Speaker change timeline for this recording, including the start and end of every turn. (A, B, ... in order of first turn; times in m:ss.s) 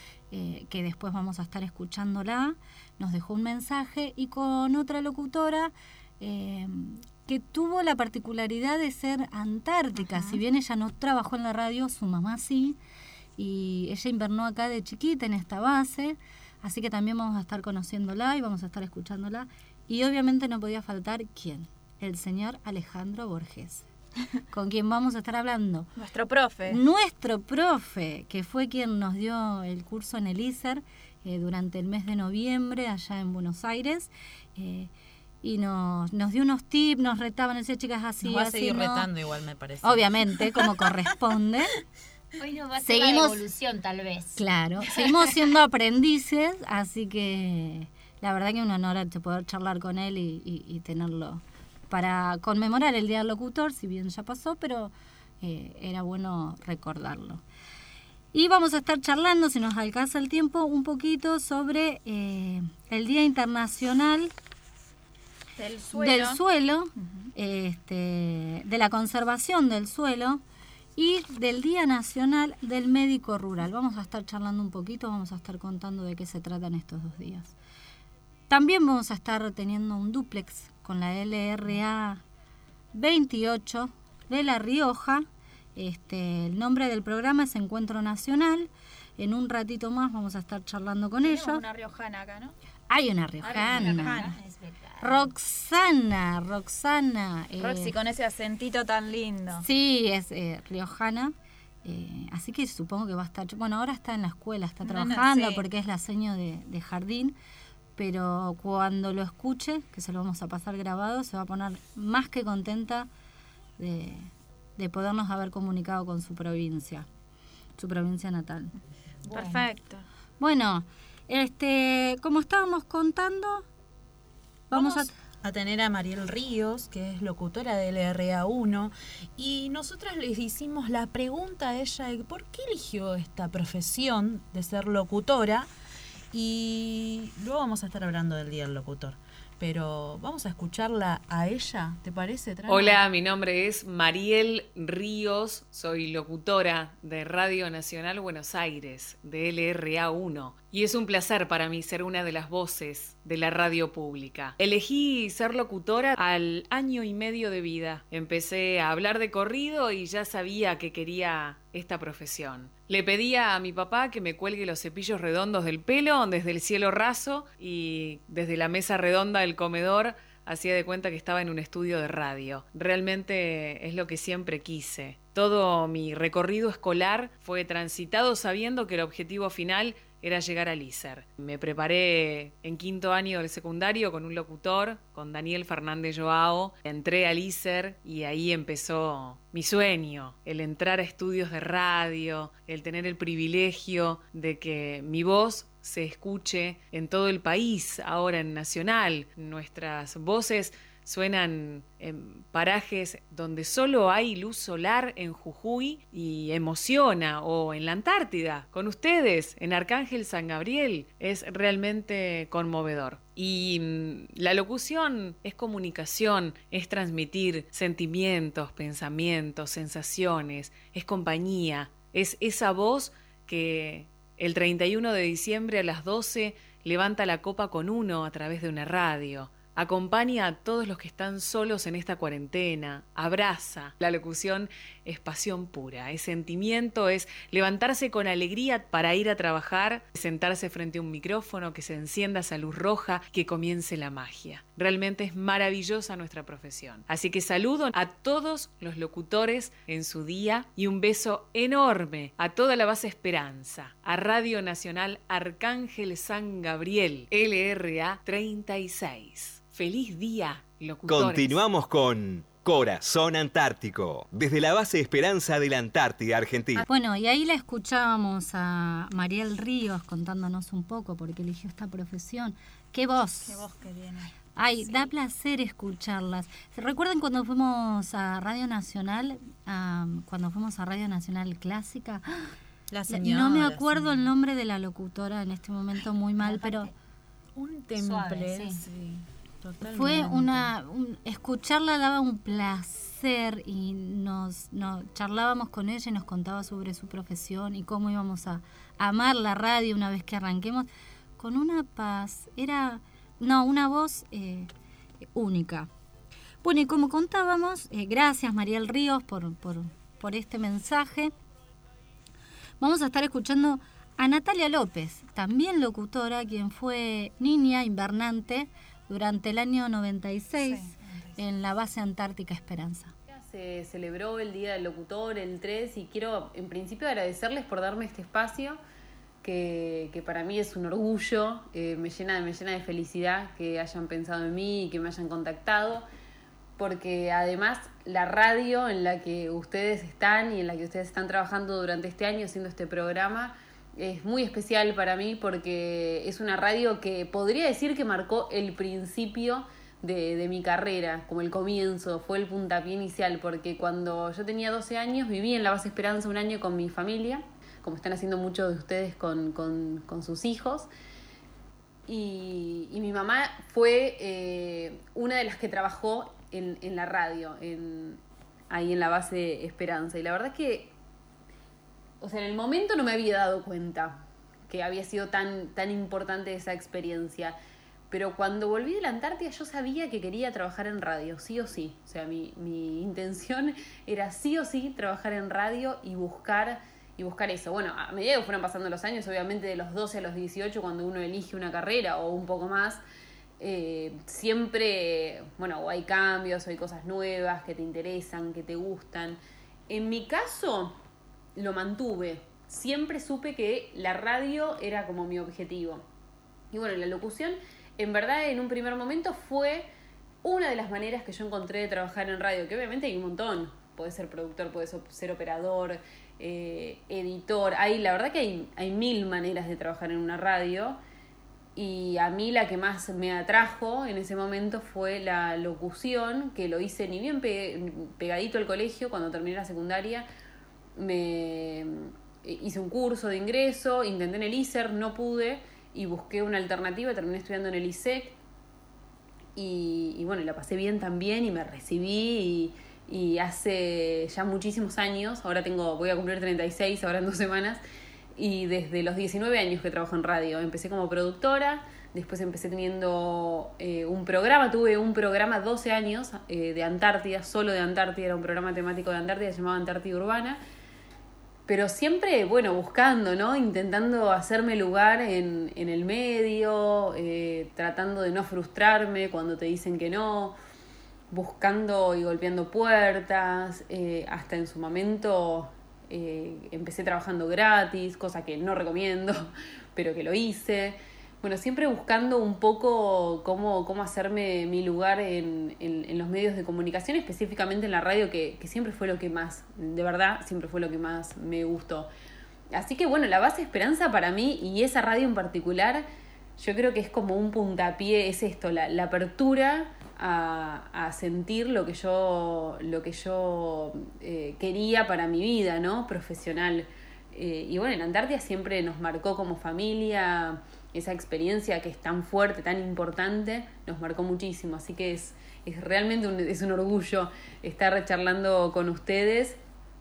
0:00.3-0:12.8 A
0:10.0-0:10.4 B
0:13.4-0:23.8 A
0:24.5-0:25.9 A
0:26.0-0:26.8 B
0:26.7-0:34.9 A
0:35.4-0:39.1 A
0:38.2-0:40.1 C
0:39.8-0:41.8 A
0:42.4-0:44.4 D
0:42.8-0:43.4 A
0:44.4-0:57.4 A
0:58.3-1:04.3 A
1:05.6-1:06.4 B
1:05.9-1:10.4 A
1:07.0-1:07.3 B
1:11.0-1:17.5 A
1:18.5-1:22.2 A
1:22.9-1:31.6 A
1:31.2-1:32.5 B
1:32.9-1:34.2 A
1:33.4-1:34.4 B
1:33.5-1:35.3 D
1:35.0-1:37.9 A
1:37.6-1:39.6 B
1:39.6-1:47.3 A
1:44.8-1:45.6 B
1:48.0-1:53.1 A
1:53.8-1:57.1 A
1:57.8-1:58.7 A
1:59.2-1:59.7 D
1:59.3-2:00.0 B
2:00.4-2:03.6 A
2:04.7-2:05.1 A
2:04.7-2:15.7 C
2:16.3-2:23.0 C
2:22.7-4:21.6 E
4:21.1-4:26.8 F
4:26.8-4:33.6 A
4:33.4-4:34.3 B
4:34.6-4:42.2 A
4:42.9-4:44.1 C
4:43.1-4:46.9 A
4:46.4-4:46.9 D
4:47.6-4:50.7 C
4:48.0-4:48.8 D
4:49.9-5:04.7 A
5:05.3-5:05.9 A
5:06.6-5:11.3 A
5:12.8-5:23.1 A
5:20.6-5:21.3 B
5:23.3-5:28.8 G
5:29.4-5:36.0 G
5:36.8-6:00.9 G
6:02.1-6:10.9 G
6:12.2-6:17.6 G
6:18.1-6:33.0 G
6:33.6-6:41.0 G
6:41.6-6:46.0 G
6:46.7-6:49.9 G
6:50.4-7:01.0 G
7:01.8-7:10.3 G
7:11.0-7:18.4 G
7:19.6-7:27.8 G
7:28.4-7:40.6 G
7:41.7-7:50.6 G
7:51.3-8:12.1 G
8:12.7-8:16.0 G
8:16.6-8:39.6 G